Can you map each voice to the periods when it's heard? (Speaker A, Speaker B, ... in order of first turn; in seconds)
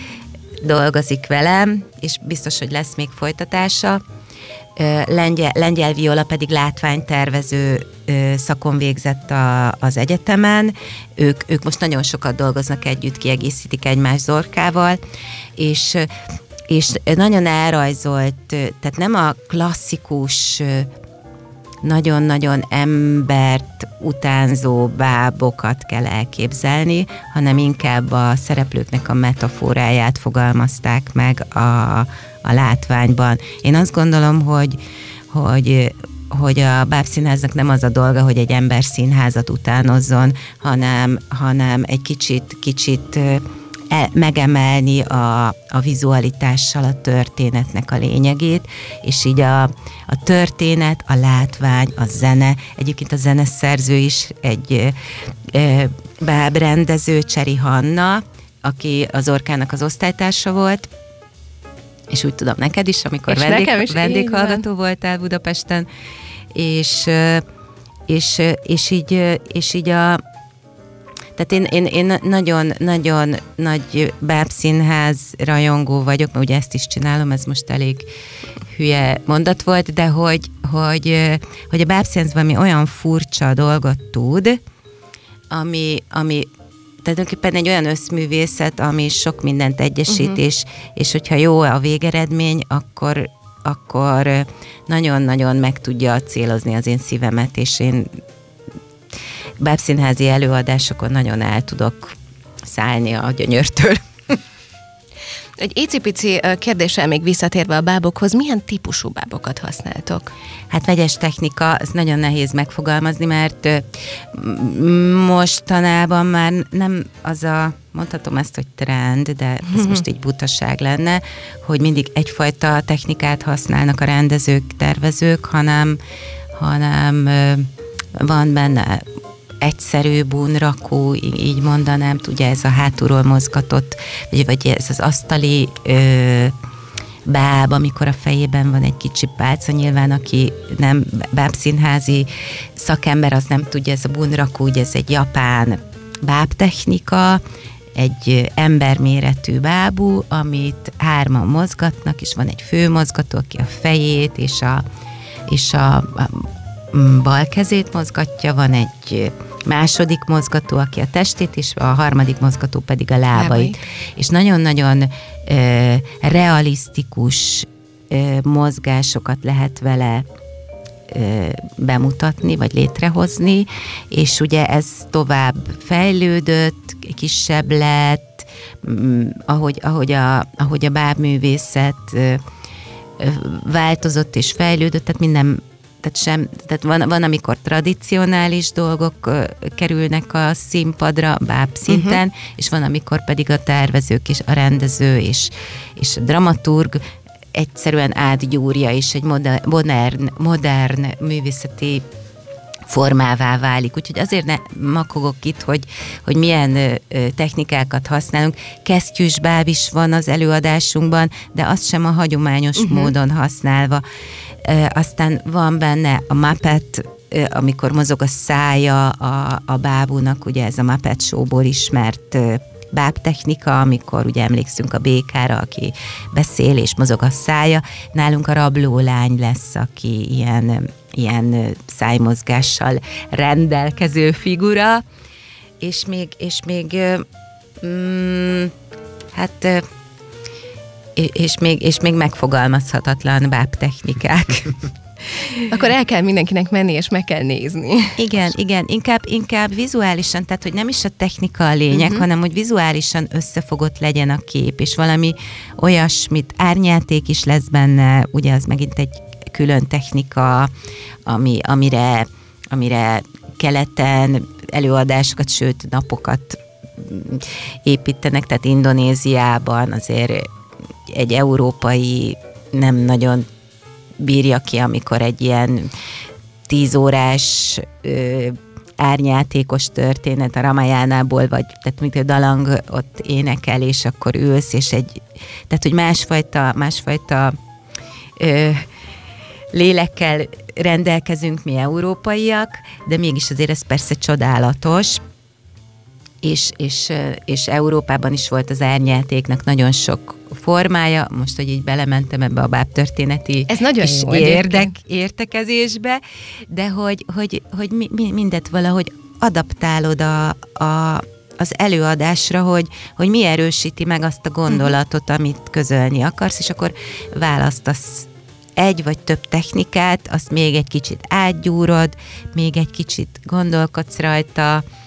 Speaker A: 0.6-4.0, 4.8-15.0, 15.6-16.1, 16.7-20.9, 21.8-60.9, 62.1-65.9, 66.5-67.4, 68.1-70.2, 71.4-78.1, 78.7-84.6, 85.5-86.5, 87.0-98.1, 99.6-104.4, 110.7-126.0, 126.5-129.1, 129.6-136.6, 137.3-147.4, 147.9-154.8, 155.5-170.3, 171.1-182.4, 183.2-202.1, 202.9-214.0, 214.6-235.0, 235.8-237.3, 237.8-238.7, 239.3-239.8, 241.2-245.5, 248.2-260.7, 261.3-270.5, 271.1-273.5, 274.2-275.9, 276.7-287.6, 288.4-288.9, 289.7-295.2, 296.4-324.8
Speaker B: 63.3-64.6, 105.6-110.3, 163.3-163.8, 191.9-192.2, 212.8-213.1, 245.7-248.2, 251.9-252.2, 303.7-304.9